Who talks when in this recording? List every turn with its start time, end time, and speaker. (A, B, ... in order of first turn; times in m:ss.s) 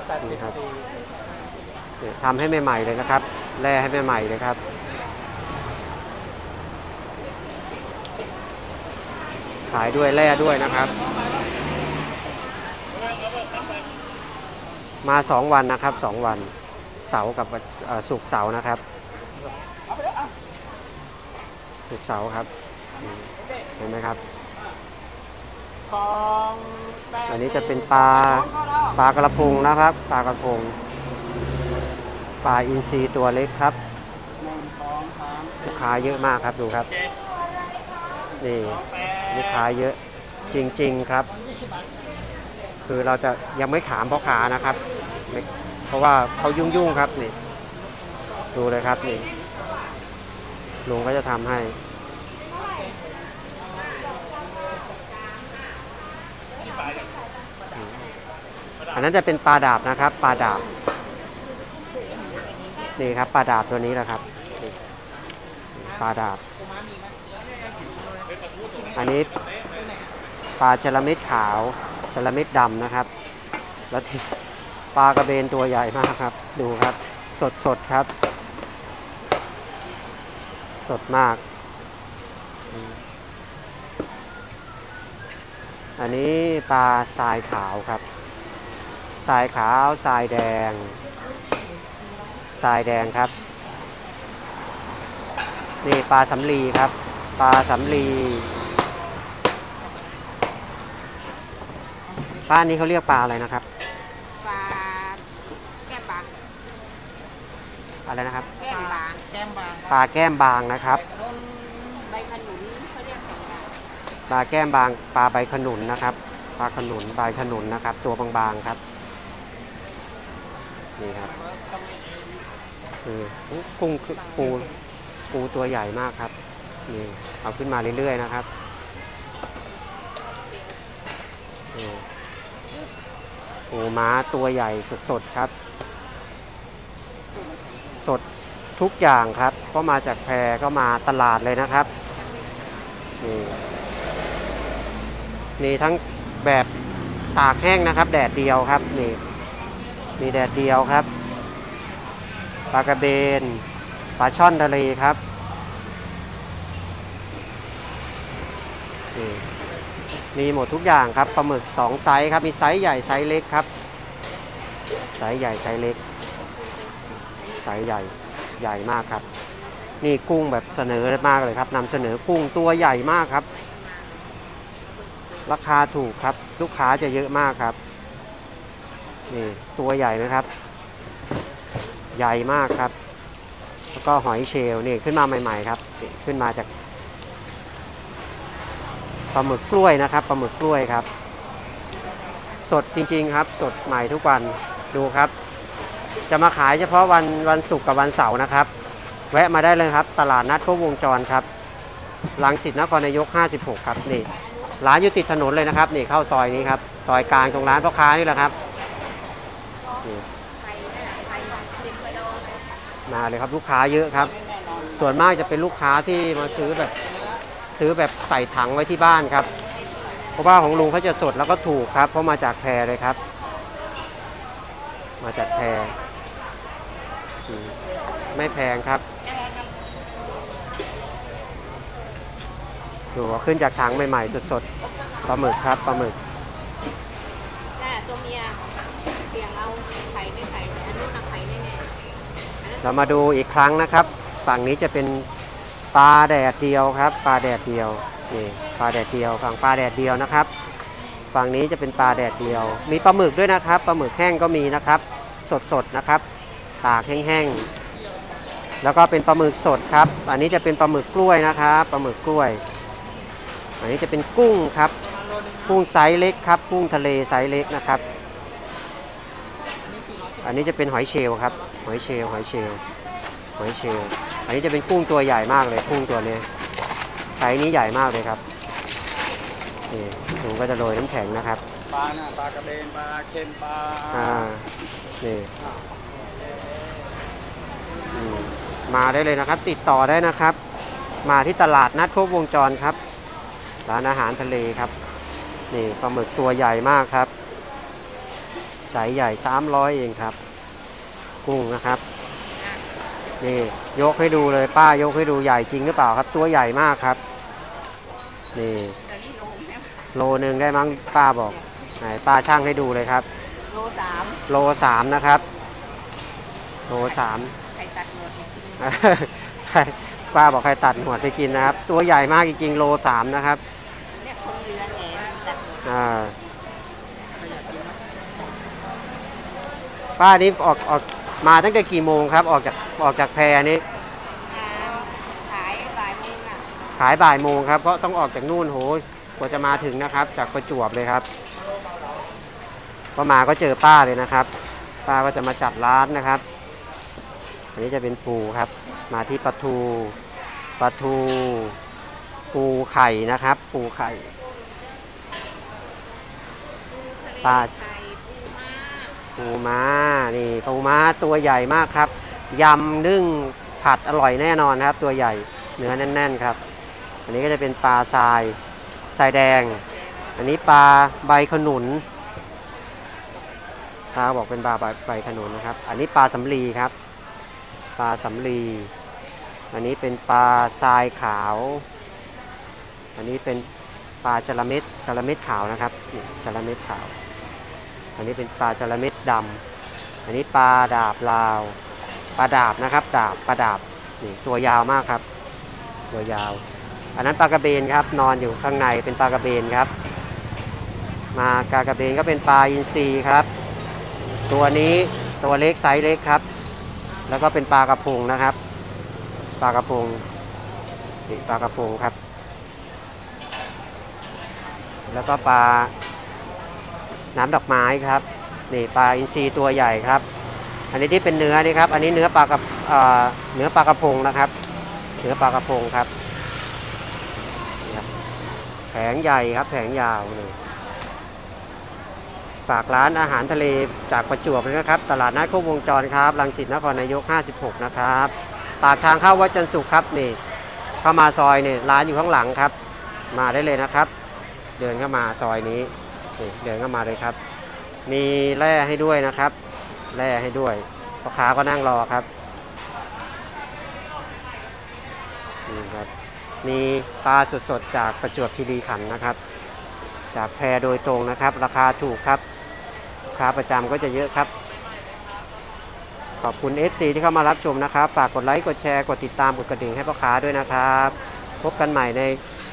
0:00.2-0:00.6 A
0:02.0-0:04.6 A
0:09.7-0:10.9 A
0:15.0-0:18.8 A
0:21.9-0:22.5 A
0:23.0-0:24.2 A
0:26.0-0:27.1 B
0:27.3-0:30.8 A
0:32.4-0:33.8 A
0:34.5-0:35.5 B
0:35.6-0:36.9 A
0:38.4-0:40.0 A
0:40.5-0:41.3 A
0:42.9-0:47.4 A
0:48.5-0:49.3 A
0:50.9-0:51.8 A
0:52.6-0:52.9 C
0:53.5-0:55.7 C
0:56.6-0:57.1 C
0:57.8-0:58.0 A
0:58.9-1:00.7 A
1:03.0-1:04.7 A
1:05.8-1:06.4 A
1:08.9-1:09.3 A
1:10.6-1:13.1 A
1:13.9-1:14.3 A
1:15.0-1:18.1 A
1:20.8-1:21.4 A
1:22.7-1:23.0 A
1:26.0-1:28.0 A
1:29.2-1:31.0 A
1:32.6-1:33.3 A
1:35.8-1:38.5 A
1:42.5-1:43.6 A
1:44.4-1:45.2 C
1:45.8-1:46.4 C
1:48.1-1:48.5 A
1:48.5-1:49.7 C
1:49.9-1:51.0 A
1:51.0-1:53.7 C
1:54.3-1:58.8 A
2:01.0-2:01.4 A
2:03.0-2:04.7 A
2:05.3-2:06.3 A
2:06.9-2:08.5 A
2:11.7-2:12.0 A
2:13.7-2:15.5 A
2:18.8-2:21.9 A
2:23.2-2:23.6 A
2:25.6-2:26.7 A
2:27.4-2:29.2 A
2:30.2-2:31.1 A
2:32.7-2:33.6 A
2:34.2-2:35.2 A
2:39.2-2:39.4 A
2:40.4-2:43.7 A
2:45.2-2:46.0 A
2:46.5-2:48.2 C
2:47.6-2:49.2 A
2:49.7-2:50.0 C
2:50.0-2:53.5 A
2:53.4-2:54.3 C
2:55.5-2:57.8 A
2:59.3-3:00.5 A
3:02.1-3:02.9 A
3:04.0-3:06.7 A
3:09.3-3:11.1 A
3:12.7-3:15.3 A
3:16.3-3:18.7 A
3:19.3-3:21.5 A
3:22.4-3:24.3 A
3:24.2-3:25.0 C
3:24.8-3:28.5 A
3:29.9-3:32.7 C
3:33.1-3:34.3 A
3:35.0-3:36.9 A
3:37.8-3:39.5 A
3:39.9-3:40.5 C
3:40.4-3:43.2 A
3:45.2-3:46.0 A
3:47.5-3:47.8 A
3:48.3-3:49.0 A
3:49.4-3:49.6 C
3:53.1-3:54.6 A
3:55.3-3:56.2 A
3:57.8-4:01.9 C
4:02.6-4:03.3 C
4:02.8-4:05.3 A
4:05.9-4:10.5 A
4:11.3-4:16.2 A
4:16.8-4:17.7 A
4:18.8-4:22.6 A
4:23.8-4:25.0 A
4:25.6-4:28.0 A
4:30.4-4:32.8 A
4:33.6-4:36.4 A
4:37.4-4:38.4 A
4:39.9-4:41.6 A
4:42.0-4:44.0 B
4:44.1-4:44.6 A
4:45.2-4:45.5 A
4:48.1-4:50.6 A
4:51.2-4:53.0 A
4:53.9-4:54.9 A
4:55.7-4:57.3 A
4:58.9-5:00.4 A
5:01.4-5:02.0 A
5:03.4-5:07.2 A
5:08.6-5:09.0 A
5:09.0-5:10.0 C
5:10.1-5:13.3 A
5:13.6-5:14.5 C
5:14.5-5:15.4 A
5:16.9-5:17.5 A
5:16.9-5:19.0 C
5:18.8-5:23.6 A
5:24.1-5:26.4 C
5:25.8-5:26.4 A
5:27.4-5:27.9 C
5:30.2-5:33.8 A
5:34.5-5:36.7 C
5:37.0-5:41.2 A
5:43.2-5:44.5 A
5:45.1-5:46.4 A
5:47.8-5:50.2 A
5:50.8-5:51.8 A
5:52.5-5:54.3 A
5:56.9-5:59.2 C
5:57.4-5:57.7 A
5:59.4-6:06.6 A
6:07.3-6:08.6 A
6:09.1-6:09.8 A
6:10.4-6:12.0 A
6:14.1-6:16.9 A
6:18.0-6:18.9 A
6:19.7-6:21.8 A
6:23.2-6:23.7 A
6:24.2-6:27.1 A
6:28.2-6:29.6 A
6:30.3-6:31.8 A
6:32.4-6:35.2 A
6:36.1-6:36.6 A
6:37.2-6:39.9 A
6:41.3-6:43.5 A
6:44.5-6:46.4 A
6:47.3-6:48.6 A
6:49.6-6:50.2 A
6:51.3-6:52.2 A
6:55.1-6:55.9 A
6:57.4-7:00.2 A
7:00.9-7:04.5 A
7:05.2-7:06.1 A
7:08.9-7:10.6 A
7:12.7-7:20.4 A
7:21.0-7:22.7 A
7:23.3-7:24.1 A
7:24.8-7:27.4 A
7:28.1-7:29.6 A
7:30.1-7:32.3 A
7:35.7-7:36.1 A
7:36.6-7:39.4 A
7:40.3-7:42.4 A
7:43.3-7:44.5 A
7:46.4-7:52.4 A